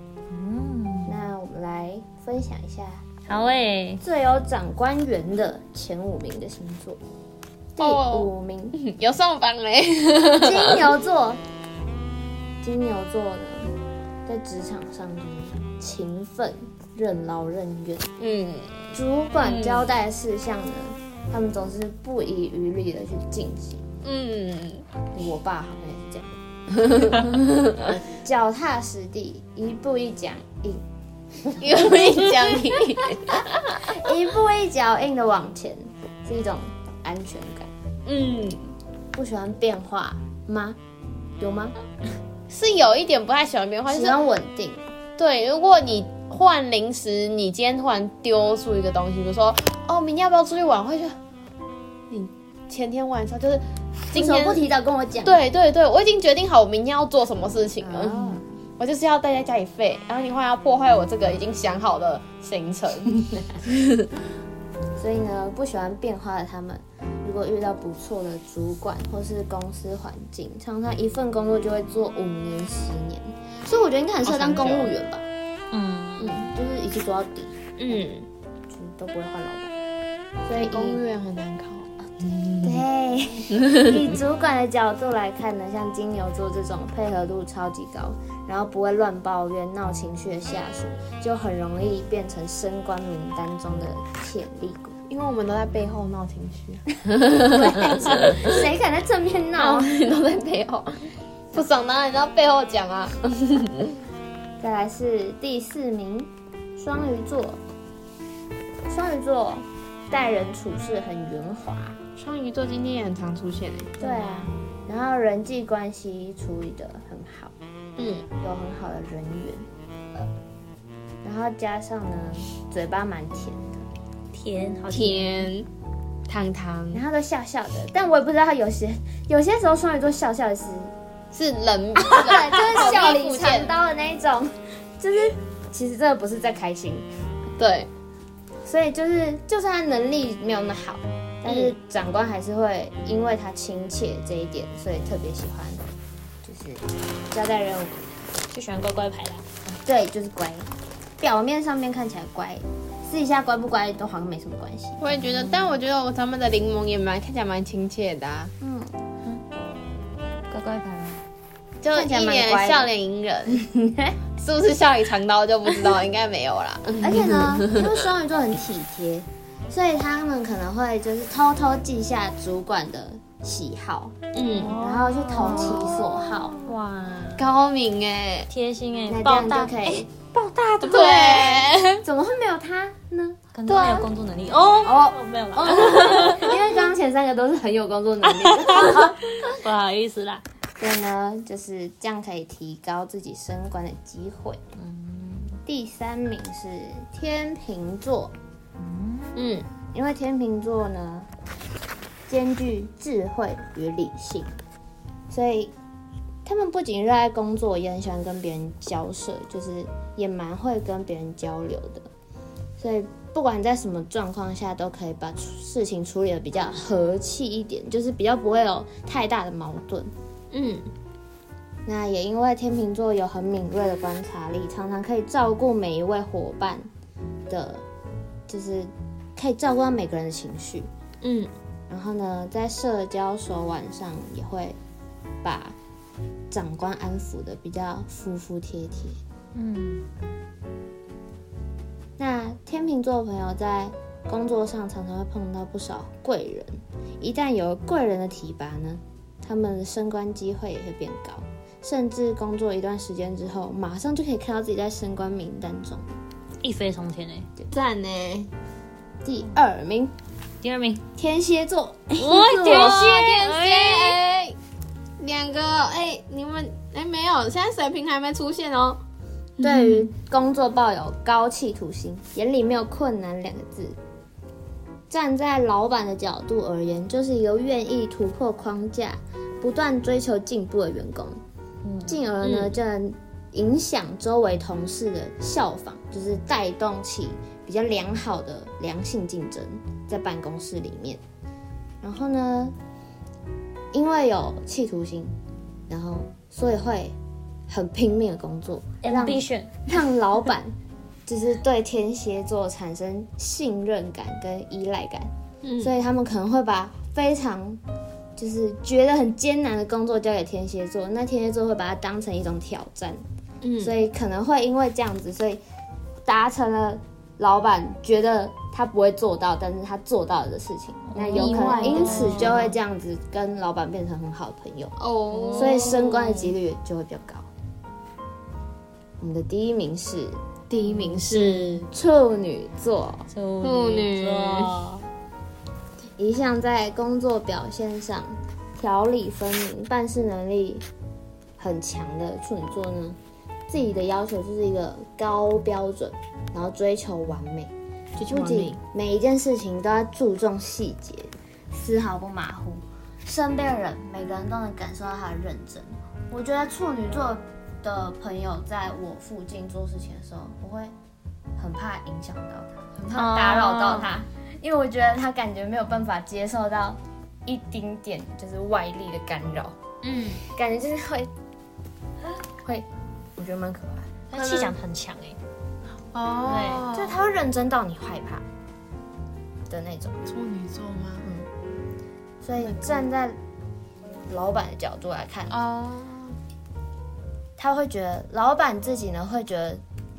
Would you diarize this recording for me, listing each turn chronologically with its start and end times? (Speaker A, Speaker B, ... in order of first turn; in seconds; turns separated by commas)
Speaker A: 0.3-1.2, Speaker B: 1.1-3.1, Speaker A: 3.3-4.0, Speaker B: 4.0-7.0, Speaker B: 7.8-8.8, Speaker C: 7.8-10.9, Speaker B: 10.4-11.4, Speaker B: 12.6-13.7, Speaker B: 14.2-18.1, Speaker C: 18.2-19.9, Speaker B: 18.9-23.8, Speaker C: 24.0-24.8, Speaker B: 25.1-26.3, Speaker B: 26.9-27.3, Speaker B: 27.9-30.8, Speaker B: 31.4-32.6, Speaker C: 31.6-34.0, Speaker B: 33.3-37.7, Speaker C: 38.0-38.7, Speaker B: 39.1-40.8, Speaker B: 41.4-41.7, Speaker C: 42.5-44.2, Speaker B: 43.9-44.9, Speaker C: 45.2-51.2, Speaker C: 52.1-54.7, Speaker B: 54.1-55.4, Speaker C: 55.2-64.1, Speaker B: 57.8-58.4, Speaker B: 65.0-75.3, Speaker C: 74.2-74.9, Speaker A: 75.7-76.4, Speaker B: 76.2-78.0, Speaker C: 77.8-78.3, Speaker B: 78.7-79.7, Speaker B: 80.5-81.0, Speaker C: 80.5-82.8, Speaker B: 82.6-95.0, Speaker C: 95.1-98.6, Speaker B: 97.5-99.9, Speaker C: 99.6-103.9, Speaker B: 104.6-107.6, Speaker B: 108.9-112.0, Speaker C: 112.2-114.0, Speaker B: 114.0-117.5, Speaker A: 114.0-114.5, Speaker C: 118.0-118.2, Speaker B: 118.4-120.3, Speaker B: 121.2-123.8, Speaker A: 124.3-125.5, Speaker C: 124.9-125.7, Speaker C: 126.3-127.0, Speaker B: 126.9-130.9, Speaker C: 131.3-133.7, Speaker B: 132.0-137.1, Speaker C: 137.6-137.9, Speaker B: 138.6-145.8, Speaker C: 141.4-141.7, Speaker B: 146.4-148.1, Speaker A: 148.5-149.4, Speaker B: 149.7-155.2, Speaker C: 155.0-158.5, Speaker B: 158.6-158.9, Speaker A: 160.5-161.2, Speaker C: 161.8-163.6, Speaker B: 161.9-162.9, Speaker B: 163.5-164.2, Speaker C: 164.4-168.1, Speaker B: 167.0-174.2, Speaker C: 174.3-174.8, Speaker A: 174.6-176.0, Speaker B: 174.7-176.6, Speaker C: 175.4-176.4, Speaker A: 176.6-177.4, Speaker C: 177.4-178.5, Speaker A: 178.5-181.2, Speaker B: 179.1-180.1, Speaker C: 180.8-182.0, Speaker B: 180.9-183.4, Speaker A: 183.5-186.5, Speaker C: 183.7-184.1, Speaker B: 184.8-189.2, Speaker C: 185.6-186.5, Speaker A: 188.4-190.4, Speaker B: 190.8-194.6, Speaker A: 194.8-195.6, Speaker B: 195.7-198.3, Speaker A: 198.8-199.3, Speaker C: 199.3-199.7, Speaker B: 199.9-201.3, Speaker B: 202.3-204.6, Speaker B: 205.3-205.7, Speaker B: 206.4-212.1, Speaker B: 212.8-220.1, Speaker C: 220.5-220.9, Speaker B: 221.8-226.9, Speaker B: 227.5-227.8, Speaker B: 228.5-230.9, Speaker C: 231.2-231.5, Speaker B: 231.9-234.8, Speaker B: 235.4-235.8, Speaker B: 236.5-239.2, Speaker A: 239.5-240.1, Speaker B: 242.2-256.1, Speaker A: 256.6-257.5, Speaker C: 257.7-258.5, Speaker B: 259.2-260.1, Speaker A: 260.6-261.0, Speaker B: 261.2-263.0, Speaker A: 262.2-264.2, Speaker C: 262.4-264.6, Speaker C: 265.2-269.0, Speaker B: 269.6-274.0, Speaker C: 269.6-270.1, Speaker B: 275.1-281.4, Speaker A: 281.8-282.2, Speaker B: 282.1-291.2, Speaker C: 282.4-282.7, Speaker B: 292.0-292.8, Speaker B: 293.9-295.4, Speaker B: 295.9-297.1, Speaker B: 297.7-300.7, Speaker A: 299.0-299.9, Speaker B: 301.3-307.8, Speaker C: 305.6-305.9, Speaker B: 308.4-313.2, Speaker C: 313.6-313.9, Speaker B: 313.8-315.6, Speaker B: 316.2-325.0, Speaker A: 321.1-322.7, Speaker C: 321.2-322.7, Speaker C: 325.0-326.5, Speaker A: 325.3-325.8, Speaker B: 325.5-327.5, Speaker B: 329.2-330.4, Speaker C: 330.7-331.8, Speaker A: 330.8-331.9, Speaker B: 331.9-333.3, Speaker A: 333.3-335.0, Speaker C: 333.6-334.8, Speaker B: 336.2-340.9, Speaker B: 341.6-347.7, Speaker C: 348.2-348.8, Speaker B: 348.3-360.9, Speaker B: 361.6-369.8, Speaker A: 363.1-364.1, Speaker C: 370.0-370.4, Speaker B: 370.5-371.3, Speaker B: 372.6-374.1, Speaker A: 374.3-375.4, Speaker C: 374.3-374.8, Speaker C: 376.1-377.2, Speaker A: 376.4-376.8, Speaker B: 376.8-378.4, Speaker B: 379.7-380.2, Speaker C: 380.2-381.3, Speaker B: 382.4-383.4, Speaker C: 382.6-383.0, Speaker B: 384.3-385.5, Speaker C: 385.5-386.4, Speaker B: 387.6-389.8